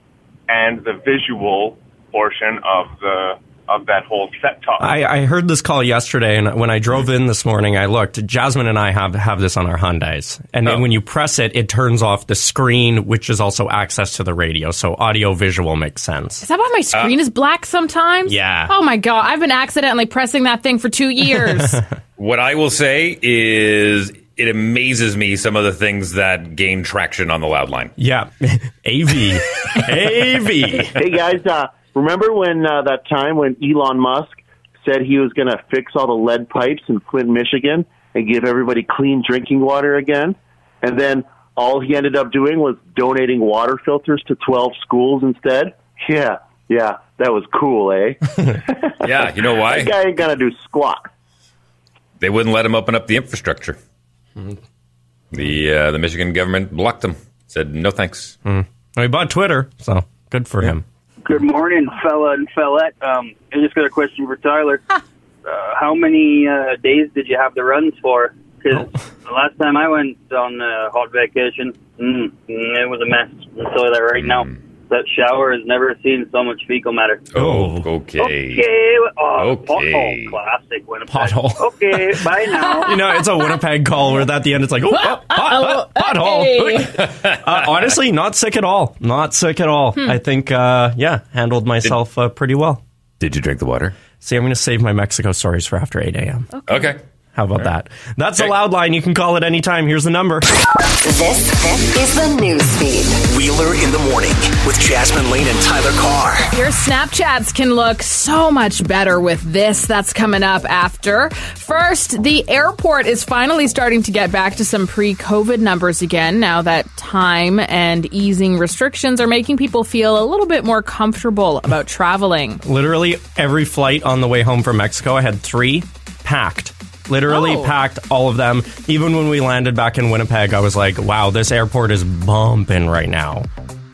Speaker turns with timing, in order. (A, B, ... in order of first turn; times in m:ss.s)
0:00.5-0:04.9 A
0:04.8-0:16.4 B
0:16.4-0:21.8 C
0:18.3-0:18.7 B
0:21.3-0:21.9 B
0:22.2-0:27.9 D
0:28.0-0:31.0 B
0:31.0-0:51.1 E
0:49.0-0:49.9 D
0:52.2-0:53.8 D
0:55.3-0:58.4 D
0:58.4-1:00.8 B
1:01.2-1:04.8 F
1:05.5-1:17.3 F
1:14.2-1:14.5 D
1:17.3-1:18.6 D
1:17.4-1:17.9 B
1:18.2-1:23.1 F
1:19.4-1:20.4 D
1:21.1-1:21.7 B
1:22.6-1:23.6 C
1:22.8-1:32.8 B
1:24.9-1:27.0 C
1:27.0-1:27.5 D
1:33.2-1:34.0 D
1:34.2-1:36.5 B
1:36.5-1:36.9 C
1:36.7-1:37.0 D
1:37.4-1:40.5 B
1:41.0-1:43.2 G
1:43.2-1:46.5 H
1:46.5-2:02.6 C
2:02.6-2:13.5 B
2:07.3-2:07.7 C